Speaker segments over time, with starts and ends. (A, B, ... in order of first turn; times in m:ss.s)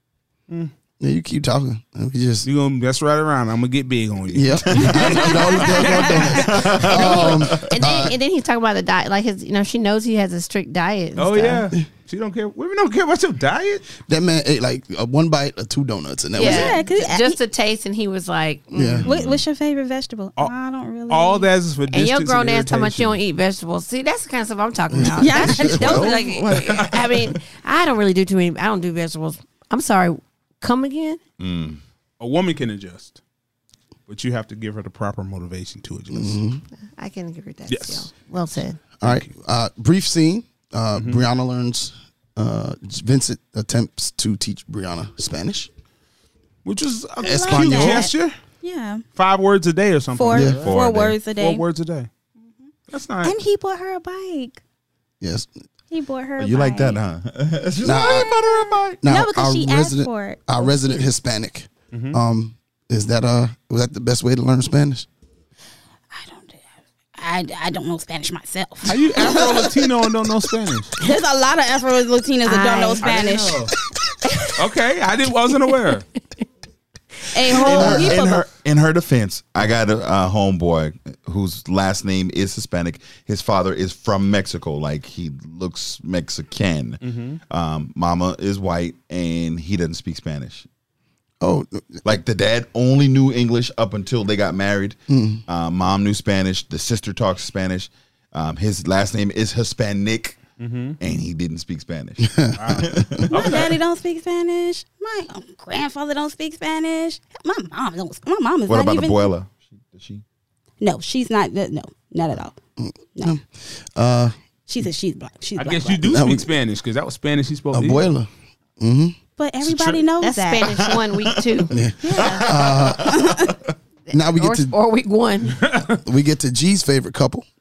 0:01.0-0:02.5 A
0:02.4-0:06.5 B
0:04.3-0:08.1 A
0:04.8-0:06.5 C
0:06.3-0:07.8 D
0:06.9-0:11.7 E
0:11.2-0:13.9 B
0:14.0-0:16.8 A
0:16.4-0:19.1 E
0:16.4-0:17.4 C
0:18.7-0:19.1 A
0:19.0-0:21.5 C
0:19.0-0:19.3 D
0:21.1-0:23.2 B
0:21.9-0:31.2 E
0:25.0-0:26.1 A
0:25.2-0:26.2 C
0:25.6-0:27.1 D
0:31.4-0:31.8 D
0:32.2-0:33.2 B
0:34.1-0:36.4 B
0:36.1-0:36.6 A
0:36.9-0:38.8 E
0:37.7-0:38.1 B
0:39.0-0:45.7 A
0:41.0-0:41.2 B
0:46.6-0:48.4 B
0:47.2-0:49.0 C
0:47.2-0:48.1 A
0:49.2-0:50.8 B
0:50.1-0:51.6 C
0:50.3-0:50.6 A
0:50.5-0:51.2 D
0:51.3-0:52.1 B
0:52.9-0:53.3 B
0:53.2-0:54.6 C
0:55.2-0:55.5 A
0:55.9-0:57.0 C
0:56.4-0:59.0 D
0:57.8-0:58.3 A
0:58.0-0:58.4 C
0:59.0-1:05.1 A
0:59.0-1:00.7 C
1:01.9-1:02.2 B
1:06.1-1:06.6 C
1:07.2-1:09.8 C
1:08.8-1:10.9 B
1:11.0-1:13.7 C
1:12.4-1:13.5 E
1:13.0-1:13.7 B
1:14.2-1:14.5 E
1:14.6-1:16.0 B
1:17.3-1:18.5 C
1:17.5-1:30.7 D
1:17.8-1:18.3 A
1:27.0-1:27.4 B
1:31.4-1:32.2 A
1:32.0-1:40.5 D
1:35.1-1:35.4 A
1:40.6-1:41.0 B
1:41.0-1:43.6 D
1:42.2-1:43.2 A
1:42.5-1:43.7 B
1:43.3-1:49.3 C
1:48.7-1:50.2 D
1:50.8-1:52.5 C
1:52.8-1:54.3 A
1:54.7-1:56.1 C
1:55.6-1:58.1 B
1:56.0-1:56.5 A
1:57.7-1:59.2 A
1:59.4-2:00.8 C
2:00.2-2:02.4 E
2:00.9-2:03.5 D
2:01.7-2:03.3 A
2:03.1-2:03.5 C
2:04.1-2:05.6 E
2:04.1-2:04.7 A
2:05.6-2:06.0 B
2:06.0-2:07.4 A